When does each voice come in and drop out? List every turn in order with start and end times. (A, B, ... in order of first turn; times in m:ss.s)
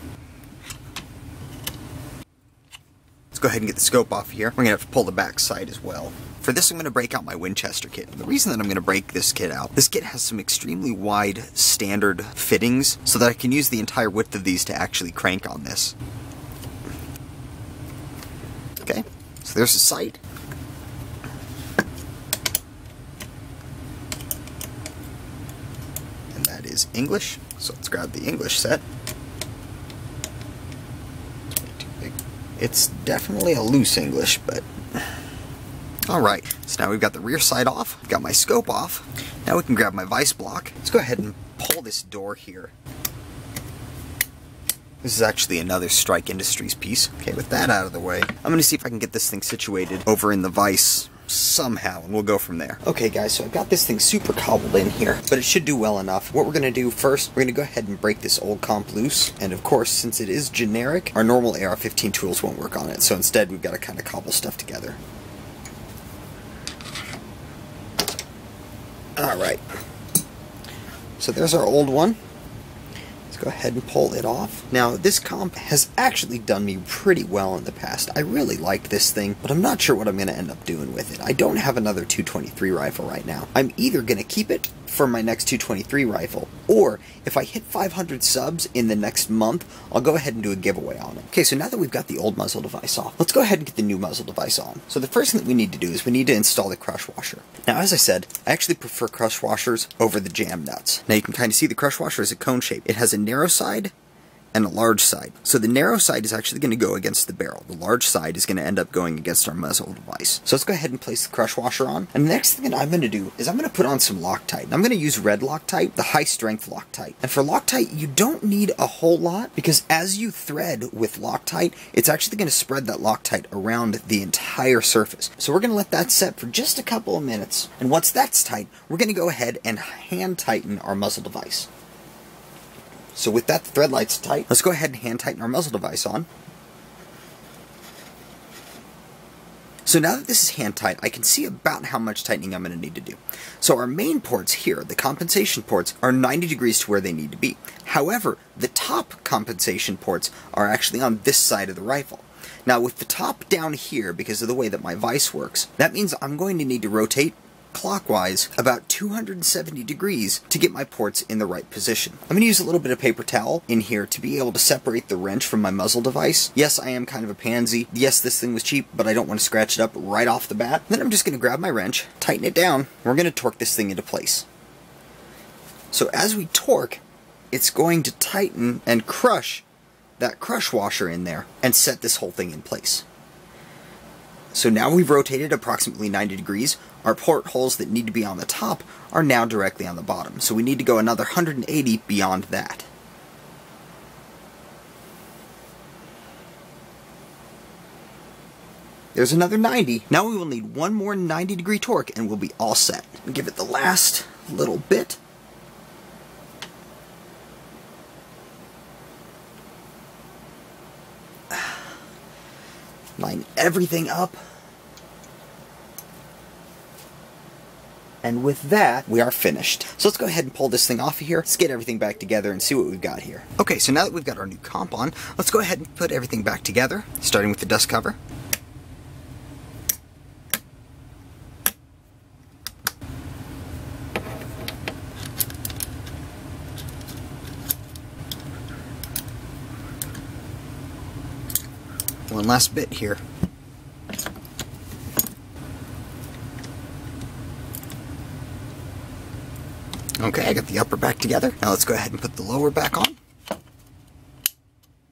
0:03.3-0:15.9 A
0:18.8-0:20.2 A
0:26.3-0:28.8 A
0:31.5-0:34.6 A
0:36.1-0:42.7 A
0:45.0-1:05.0 A
1:09.2-1:09.6 A
1:11.2-1:12.2 A
1:13.3-1:43.9 A
1:44.5-2:11.7 A
2:13.1-2:16.3 A
2:19.8-2:54.4 A
2:55.9-2:59.6 A
3:00.2-3:03.0 A
3:04.5-3:12.9 A
3:19.1-3:25.2 A
3:33.2-3:34.4 A
3:38.2-3:48.2 A
4:02.3-4:03.2 A
4:10.2-4:13.2 A